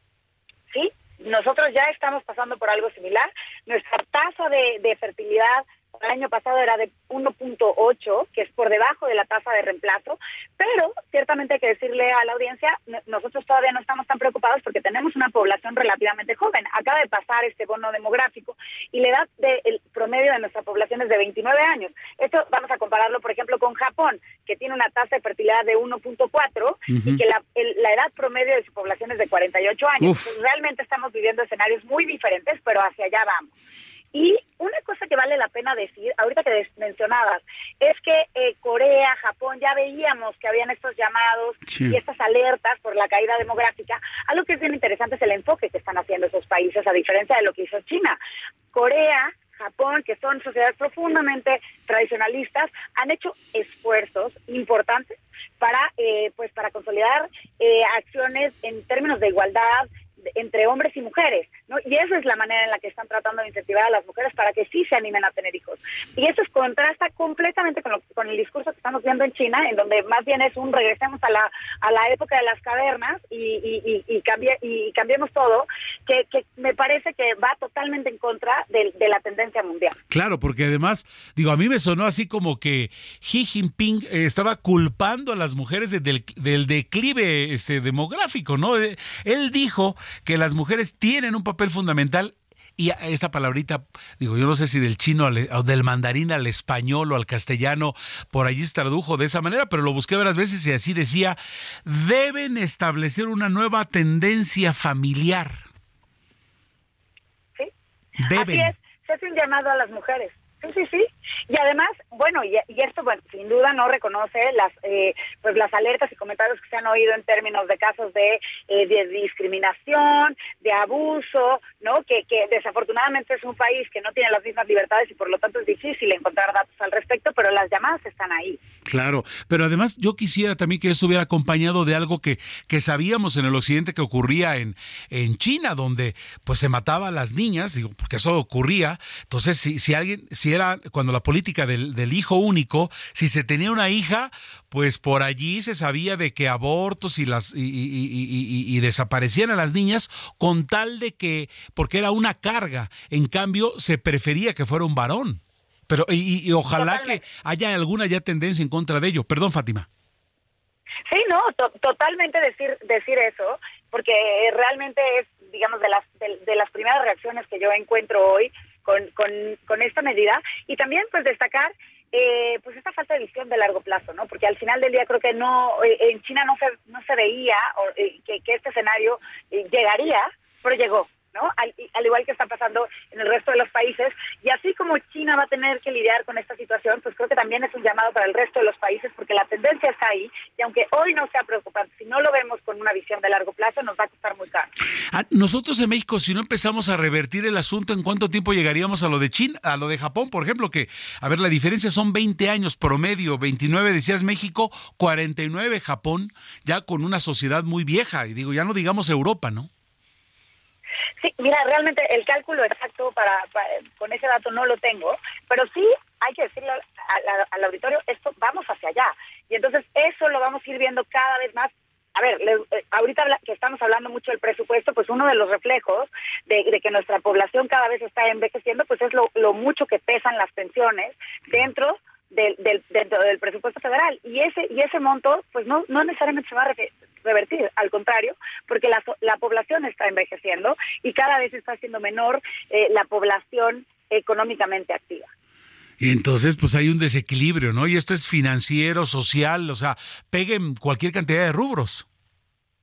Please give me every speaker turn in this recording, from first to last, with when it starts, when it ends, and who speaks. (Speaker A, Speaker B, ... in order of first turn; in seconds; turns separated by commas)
Speaker A: 0.7-33.5, Speaker B: 26.9-27.2, Speaker B: 30.0-30.4, Speaker A: 34.1-48.2, Speaker B: 41.7-42.0, Speaker A: 48.7-80.0, Speaker B: 80.1-105.6, Speaker B: 108.2-108.7, Speaker A: 108.4-128.6, Speaker B: 128.9-159.9, Speaker A: 156.8-157.2, Speaker A: 161.1-194.7, Speaker B: 195.1-209.7, Speaker A: 211.2-245.3, Speaker B: 246.0-252.1